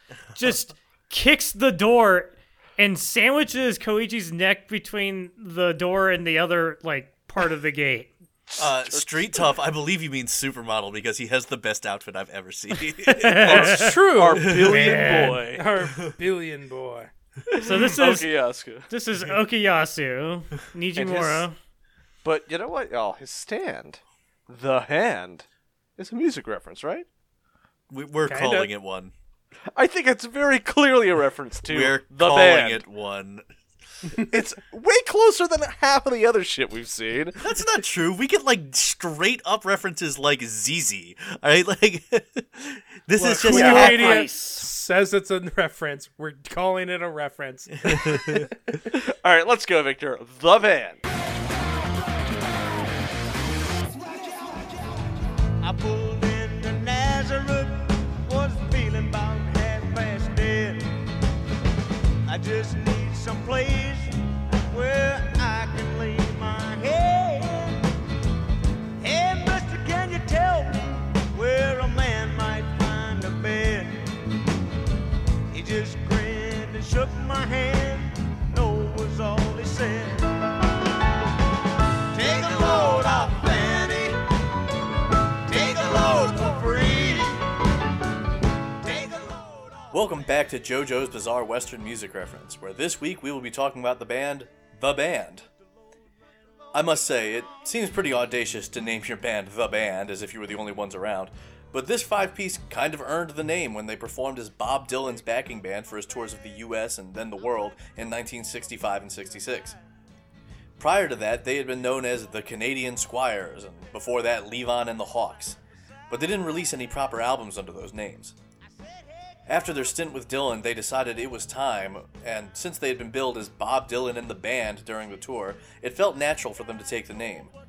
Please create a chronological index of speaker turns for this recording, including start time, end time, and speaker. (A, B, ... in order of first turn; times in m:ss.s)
0:00.4-0:08.1 A
0:08.5-0:09.5 B
0:08.6-0:13.6 C
0:13.1-0:14.0 A
0:13.3-0:15.7 B
0:13.6-0:17.1 D
0:14.7-0:15.4 A
0:17.5-0:18.9 B
0:17.6-0:18.3 A
0:18.9-0:21.6 A
0:21.0-0:21.5 B
0:22.2-0:25.4 B
0:26.0-0:27.1 B
0:27.9-0:29.1 C
0:28.3-0:28.7 D
0:29.8-0:32.8 B
0:31.7-0:33.4 C
0:34.3-0:37.4 B
0:37.4-0:44.3 C
0:43.2-0:48.5 D
0:43.4-0:44.7 A
0:43.6-0:43.8 B
0:47.8-0:48.5 C
0:48.9-0:51.0 B
0:55.6-1:01.0 E
1:02.3-1:07.9 E
1:09.0-1:14.1 E
1:15.5-1:20.5 E
1:22.1-1:24.3 E
1:25.4-1:27.6 E
1:28.7-1:29.8 E
1:29.9-1:35.5 C
1:36.7-1:49.8 C
1:50.8-1:55.6 C
1:56.1-1:58.4 C
1:59.5-2:07.5 C